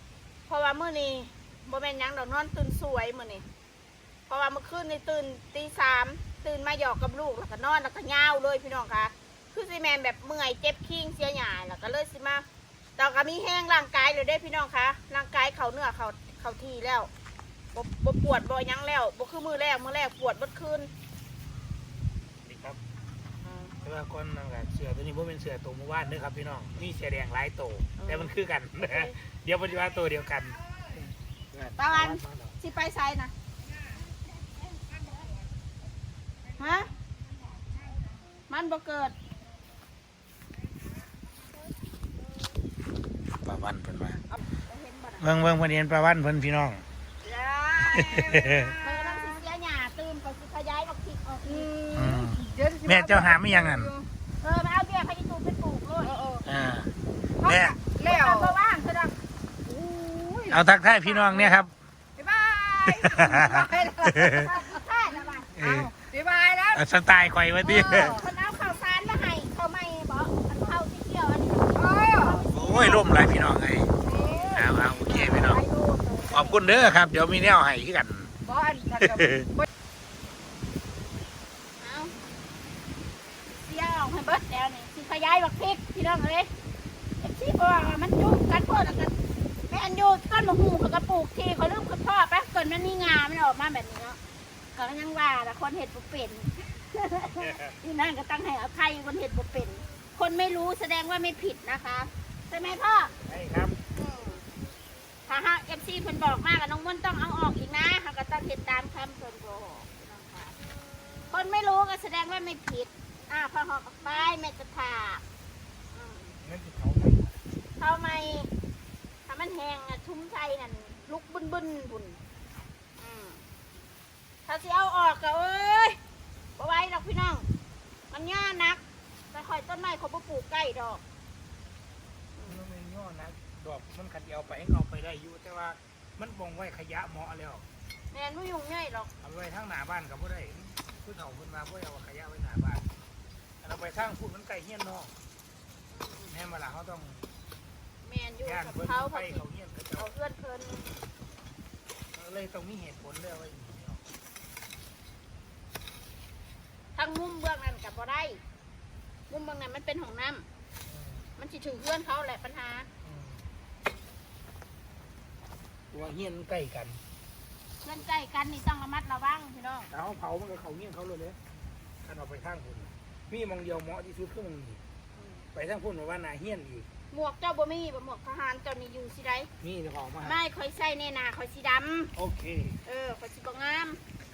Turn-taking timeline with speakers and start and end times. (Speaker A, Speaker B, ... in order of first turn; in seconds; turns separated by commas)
Speaker A: 0.5-3.4, Speaker A: 4.3-12.4, Speaker A: 13.0-17.1, Speaker A: 17.7-20.9, Speaker B: 22.4-22.8, Speaker A: 23.4-23.8, Speaker B: 23.8-30.6, Speaker A: 28.0-29.1, Speaker B: 31.5-32.5, Speaker A: 31.8-33.3, Speaker A: 36.6-36.9, Speaker A: 38.5-39.1, Speaker B: 43.4-44.2, Speaker A: 44.3-45.3, Speaker B: 45.2-46.8, Speaker C: 47.6-49.4, Speaker B: 47.8-48.7, Speaker A: 48.8-51.7, Speaker C: 51.4-54.1, Speaker B: 51.9-53.9, Speaker A: 54.4-56.1, Speaker C: 56.0-56.5, Speaker B: 56.4-57.8, Speaker C: 57.4-58.5, Speaker A: 58.0-59.2, Speaker C: 59.6-61.6, Speaker B: 60.5-61.7, Speaker C: 62.2-64.8, Speaker B: 62.9-64.4, Speaker A: 64.2-65.5, Speaker B: 65.5-65.9, Speaker C: 65.5-66.8, Speaker B: 66.7-68.2, Speaker C: 67.6-68.2, Speaker A: 67.8-73.1, Speaker C: 71.7-72.4, Speaker B: 72.5-73.9, Speaker C: 74.0-74.6, Speaker A: 74.0-76.6, Speaker B: 74.5-75.6, Speaker B: 76.3-78.3, Speaker C: 78.4-79.7, Speaker B: 79.0-79.5, Speaker A: 81.8-82.1, Speaker A: 83.5-86.5, Speaker A: 87.2-89.1, Speaker A: 89.7-94.2, Speaker A: 94.7-103.1, Speaker B: 97.3-97.7, Speaker B: 103.2-103.8, Speaker A: 103.9-104.4, Speaker A: 105.3-110.6, Speaker A: 111.3-115.2, Speaker A: 115.9-116.4, Speaker B: 116.4-117.3, Speaker A: 117.8-118.5, Speaker A: 119.3-122.2, Speaker A: 123.0-123.4, Speaker A: 124.5-126.0, Speaker A: 126.6-127.5, Speaker A: 128.1-131.0, Speaker A: 132.3-132.6, Speaker B: 132.4-137.6, Speaker A: 138.1-139.1, Speaker B: 139.2-142.9, Speaker B: 143.6-145.1, Speaker A: 145.9-146.3, Speaker B: 146.3-147.3, Speaker A: 148.0-149.4, Speaker B: 148.4-150.1, Speaker A: 150.0-150.9, Speaker B: 152.1-154.0, Speaker A: 156.9-158.4, Speaker A: 159.3-160.4, Speaker B: 160.9-161.2, Speaker A: 161.4-162.9, Speaker B: 163.0-163.4, Speaker B: 165.9-167.0, Speaker A: 167.8-169.9, Speaker B: 169.9-171.4, Speaker B: 172.0-174.8, Speaker A: 175.1-175.4, Speaker B: 175.5-176.9, Speaker A: 177.1-179.5, Speaker B: 179.6-180.4, Speaker A: 180.2-182.1, Speaker B: 182.2-182.8, Speaker A: 182.8-184.0